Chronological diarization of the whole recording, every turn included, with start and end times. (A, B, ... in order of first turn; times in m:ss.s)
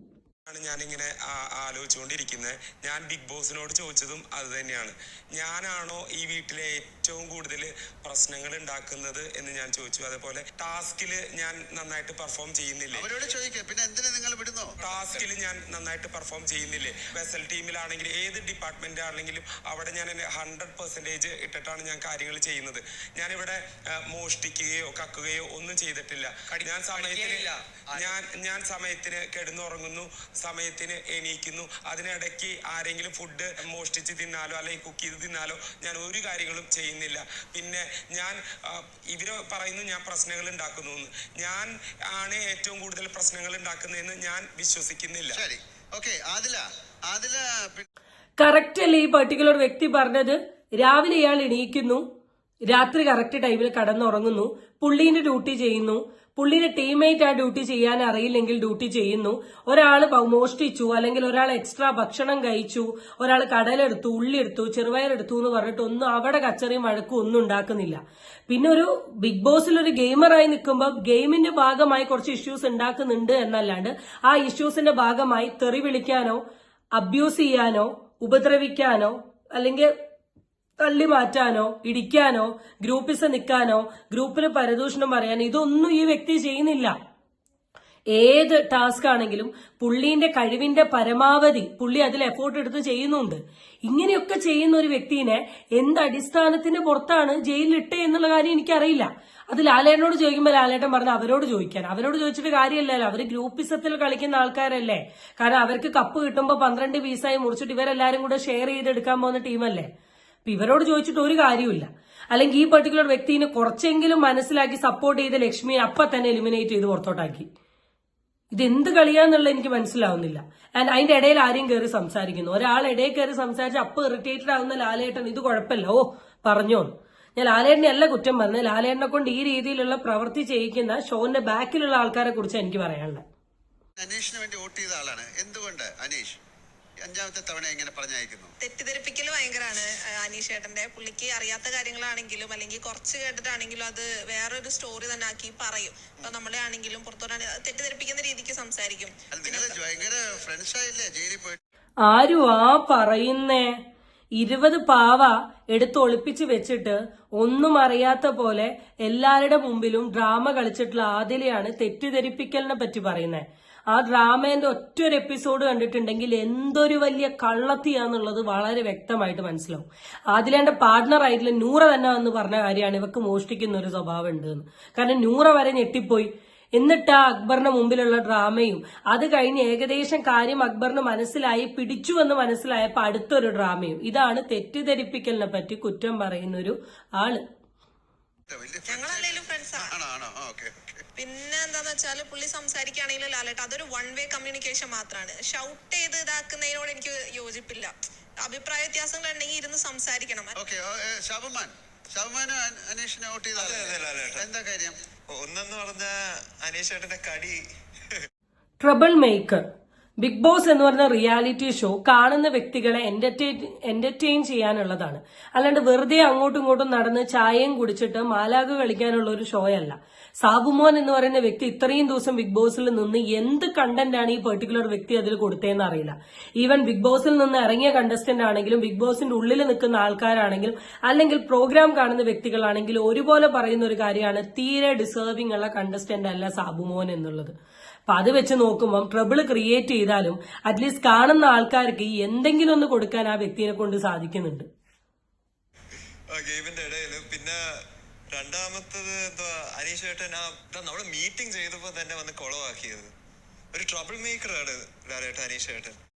0:00.5-0:13.1 A
0:12.9-0:14.7 B
0:14.8-0:45.4 A
0:45.3-0:47.8 B
0:48.4-0:52.0 C
0:52.7-1:16.4 C
1:16.9-1:19.9 C
1:20.8-1:26.9 C
1:28.1-1:49.9 C
1:50.4-1:57.5 C
1:58.5-2:13.2 C
2:14.0-2:16.3 B
2:17.0-2:18.5 B
2:18.6-2:29.8 D
2:29.3-2:31.6 B
2:32.0-2:33.7 C
2:34.4-3:07.4 C
3:08.5-3:11.0 B
3:08.9-3:10.0 D
3:11.2-3:20.5 D
3:20.6-3:24.9 B
3:23.6-3:24.5 E
3:25.3-3:27.6 E
3:28.8-3:29.6 C
3:30.2-3:57.5 C
3:58.1-4:04.7 C
4:06.3-4:07.6 E
4:08.3-4:13.1 E
4:13.7-4:16.0 E